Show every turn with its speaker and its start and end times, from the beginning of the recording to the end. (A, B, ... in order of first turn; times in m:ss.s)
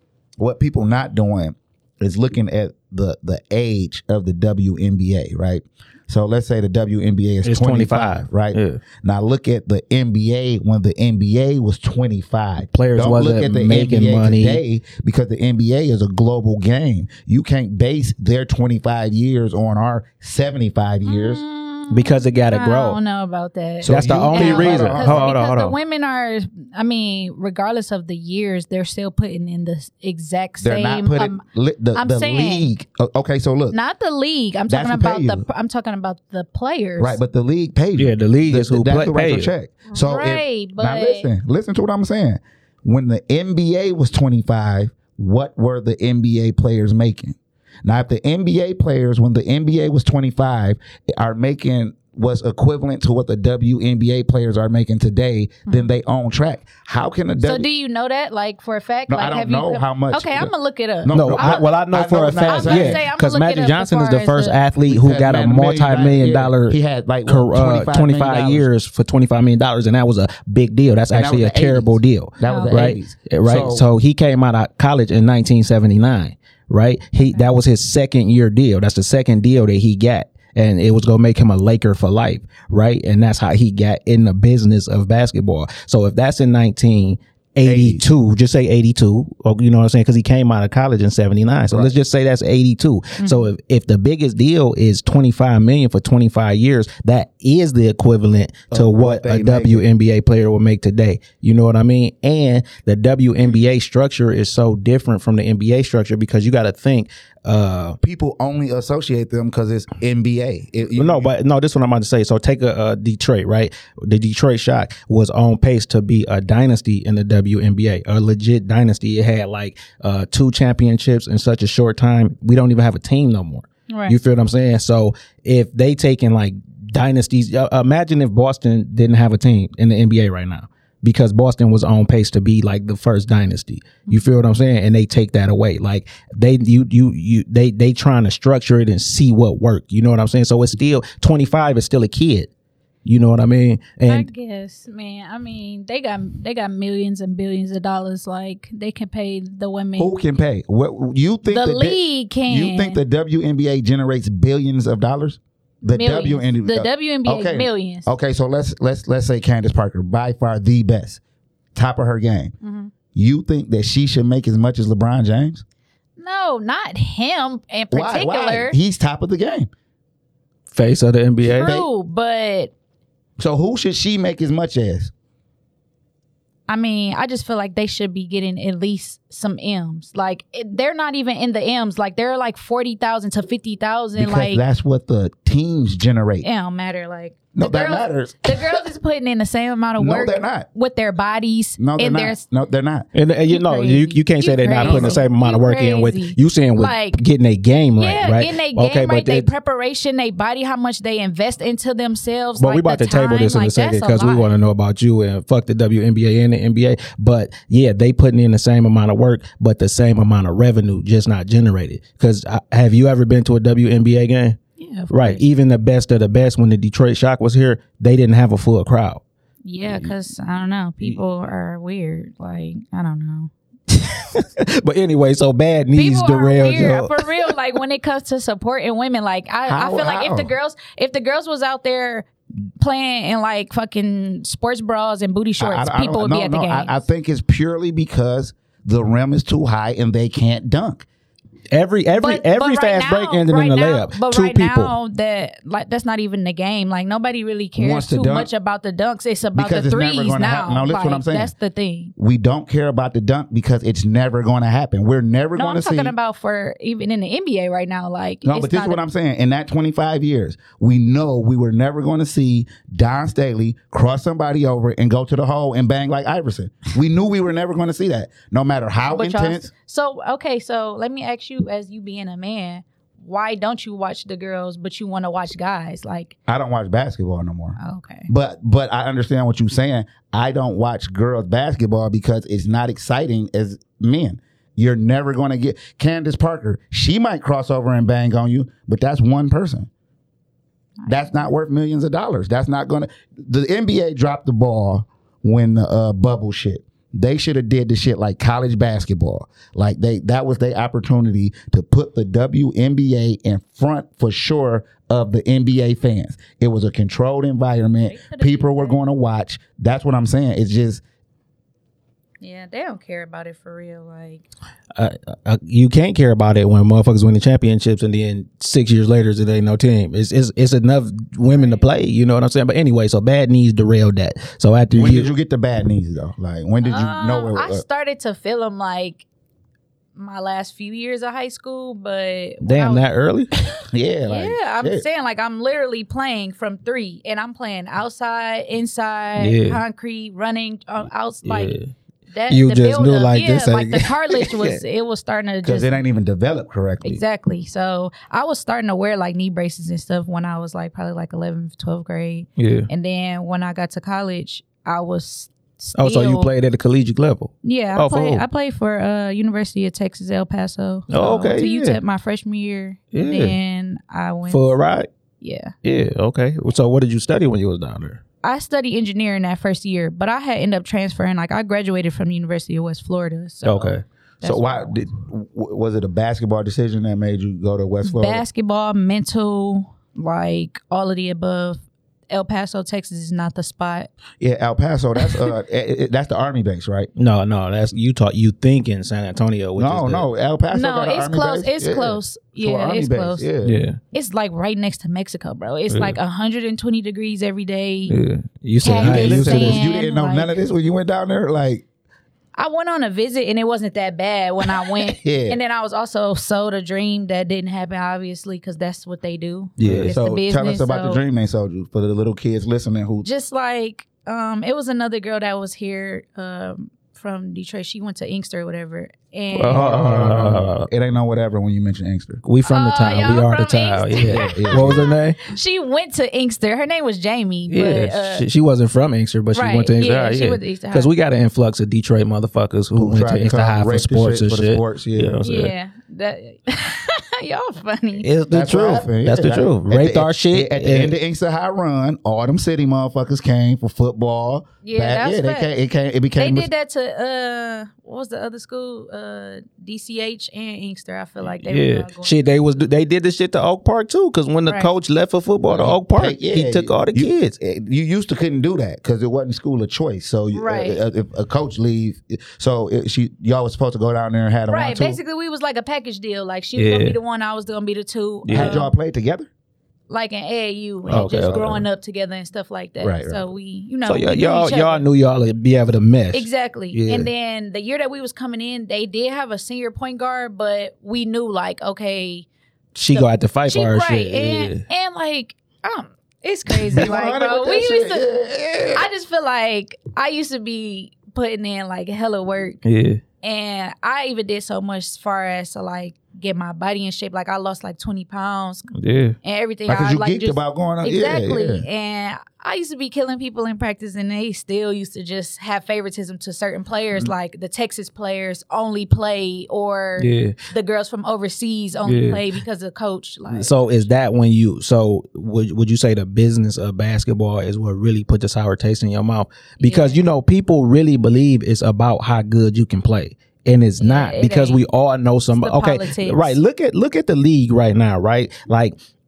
0:00.4-0:21.4 A
0:07.4-0:08.8 B
0:12.7-0:14.6 B
0:21.0-0:31.4 C
0:21.9-0:23.0 B
0:23.8-0:25.3 A
0:23.8-0:25.8 B
0:30.6-0:33.8 A
0:31.9-0:32.7 C
0:33.7-0:37.2 C
0:34.7-0:35.4 A
0:37.0-0:57.7 A
0:38.0-0:39.5 B
0:39.9-0:41.3 C
0:57.4-1:01.7 C
0:59.1-1:00.5 A
1:01.0-1:03.0 A
1:01.1-1:48.0 B
1:02.4-1:04.6 C
1:04.9-1:08.7 A
1:11.1-1:13.8 A
1:12.4-1:12.8 C
1:27.6-1:28.1 A
1:33.2-1:33.5 C
1:38.7-1:39.8 A
1:48.0-1:51.3 A
1:51.0-2:22.5 B
2:03.9-2:04.2 C
2:23.0-2:24.3 B
2:24.1-2:30.1 C
2:30.0-2:41.2 A
2:31.5-2:33.0 C
2:35.8-2:38.1 C
2:41.7-2:42.5 A
2:42.6-2:42.9 C
2:43.1-2:45.6 A
2:46.2-2:48.8 C
2:47.9-2:49.7 A
2:50.7-2:51.7 B
2:51.5-2:52.7 C
2:51.5-2:51.8 A
2:53.4-2:55.1 A
2:56.7-3:04.6 C
3:04.2-3:06.4 A
3:06.4-3:12.4 C
3:07.5-3:08.8 A
3:10.0-3:10.7 A
3:11.8-3:13.1 A
3:13.1-3:19.5 B
3:13.5-3:17.2 C
3:14.8-3:15.2 A
3:18.0-3:24.5 C
3:22.6-3:34.6 B
3:34.8-3:35.4 C
3:35.1-3:39.2 B
3:39.6-3:43.5 C
3:39.8-3:40.1 B
3:43.9-3:47.5 B
3:45.9-3:52.3 C
3:49.6-3:50.5 A
3:52.8-3:56.9 C
3:55.6-4:01.0 A
4:01.7-4:04.9 B
4:02.2-4:12.1 C
4:07.8-4:08.5 A
4:09.5-4:11.5 A
4:12.2-4:16.1 A
4:15.6-4:19.0 C
4:18.4-4:29.7 A
4:29.1-4:36.3 C
4:36.5-4:49.9 A
4:37.8-4:38.3 C
4:51.0-4:51.4 C
4:51.1-5:11.0 A
5:08.1-5:09.0 C
5:12.4-5:14.4 C
5:15.0-5:25.3 B
5:21.4-5:21.8 C
5:24.9-5:27.8 A
5:26.8-5:29.2 C
5:30.2-5:33.0 C
5:32.6-5:33.5 B
5:33.9-5:35.0 A
5:34.3-5:41.8 C
5:39.4-5:39.8 B
5:41.4-5:41.9 B
5:42.3-5:46.0 C
5:42.5-5:44.8 B
5:45.6-5:47.2 A
5:47.0-5:56.5 C
5:52.6-5:52.9 B
5:56.0-5:58.4 B
5:57.6-6:04.8 C
6:01.1-6:02.0 B
6:03.1-6:03.6 B
6:04.5-6:05.1 B
6:05.4-6:05.7 C
6:05.8-6:08.2 B
6:08.4-6:14.9 C
6:13.6-6:14.0 B
6:14.4-6:18.4 A
6:18.0-6:24.1 C
6:24.4-6:27.1 A
6:25.2-6:25.4 C
6:27.2-6:30.3 B
6:29.8-6:33.8 A
6:30.7-6:33.4 C
6:33.6-6:34.0 B
6:34.1-6:38.2 C
6:35.9-6:36.2 B
6:38.1-6:39.8 B
6:38.8-6:40.6 C
6:39.0-6:41.8 A
6:42.6-6:51.2 C
6:45.0-6:45.6 A
6:49.8-6:50.2 B
6:49.8-6:53.2 A
6:53.2-6:59.9 C
6:59.5-7:00.9 B
6:59.7-7:02.4 A
7:02.4-7:05.4 B
7:02.6-7:08.4 C
7:04.2-7:05.0 A
7:07.7-7:15.7 B
7:09.5-7:11.1 C
7:12.9-7:15.4 A
7:15.4-7:18.3 C
7:18.2-7:21.1 B
7:18.5-7:26.7 A
7:24.8-7:25.7 C
7:26.4-7:32.4 C
7:31.6-7:37.5 B
7:35.7-7:45.2 A
7:40.5-7:41.0 C
7:44.7-7:48.9 C
7:46.8-7:47.2 B
7:48.4-7:48.8 B
7:48.5-7:49.5 A
7:50.1-7:55.0 C
7:51.1-7:51.8 B
7:53.0-7:53.4 B
7:54.0-7:57.3 B
7:56.3-8:02.5 C
8:02.9-8:04.8 B
8:03.1-8:08.2 C
8:06.9-8:09.1 A
8:08.9-8:12.8 C
8:12.8-8:13.2 B
8:13.4-8:18.9 C
8:18.9-8:19.4 B
8:19.4-8:34.0 C
8:19.9-8:21.8 A
8:30.2-8:30.6 B
8:32.0-8:32.4 B
8:33.5-8:48.9 B
8:39.8-8:40.2 C
8:44.0-8:44.8 C
8:45.5-8:46.6 C